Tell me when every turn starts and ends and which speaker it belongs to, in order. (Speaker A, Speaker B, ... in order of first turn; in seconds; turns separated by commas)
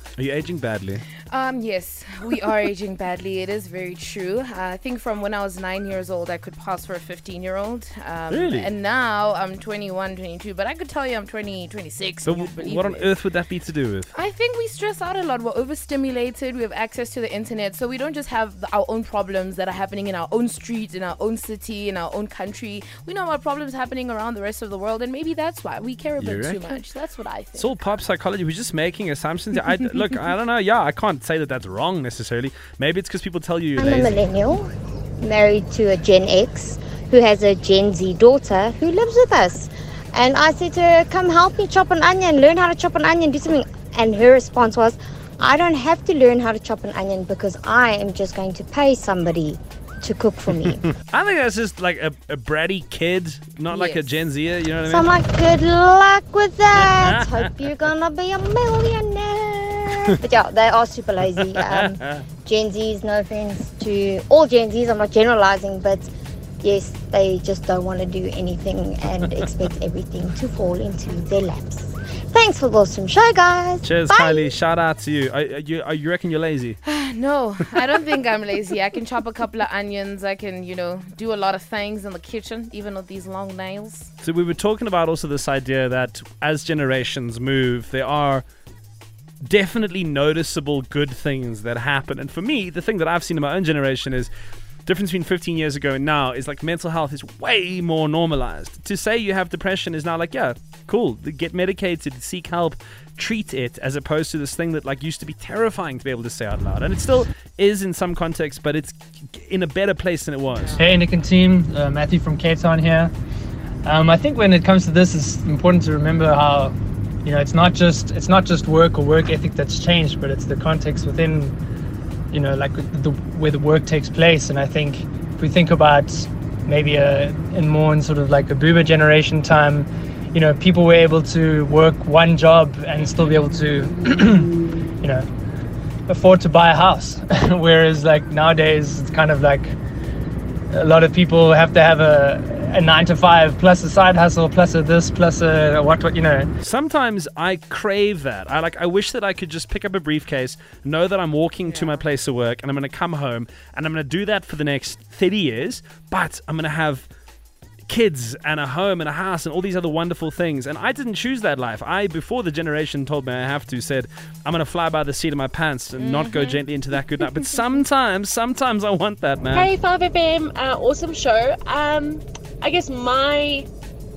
Speaker A: 0.2-1.0, Speaker B: 1.3-13.1, Speaker A: 8.3-8.7, Speaker A: 12.2-14.1, Speaker B: 14.1-27.7, Speaker A: 26.2-26.7, Speaker A: 27.6-34.2, Speaker C: 33.8-50.8, Speaker A: 51.1-55.1, Speaker B: 53.7-54.2, Speaker C: 54.9-66.1, Speaker A: 56.8-57.5, Speaker A: 61.6-62.2, Speaker C: 66.6-74.5, Speaker A: 73.8-76.8, Speaker B: 76.8-84.1, Speaker A: 84.2-88.5, Speaker A: 89.5-94.3, Speaker A: 94.9-110.8, Speaker B: 110.5-111.0, Speaker D: 110.8-113.1, Speaker D: 113.8-121.5, Speaker D: 122.3-134.0, Speaker D: 136.1-139.7, Speaker D: 140.7-146.5, Speaker A: 146.6-157.1, Speaker B: 151.7-152.1, Speaker A: 157.9-169.8, Speaker B: 166.0-166.6, Speaker E: 169.5-173.7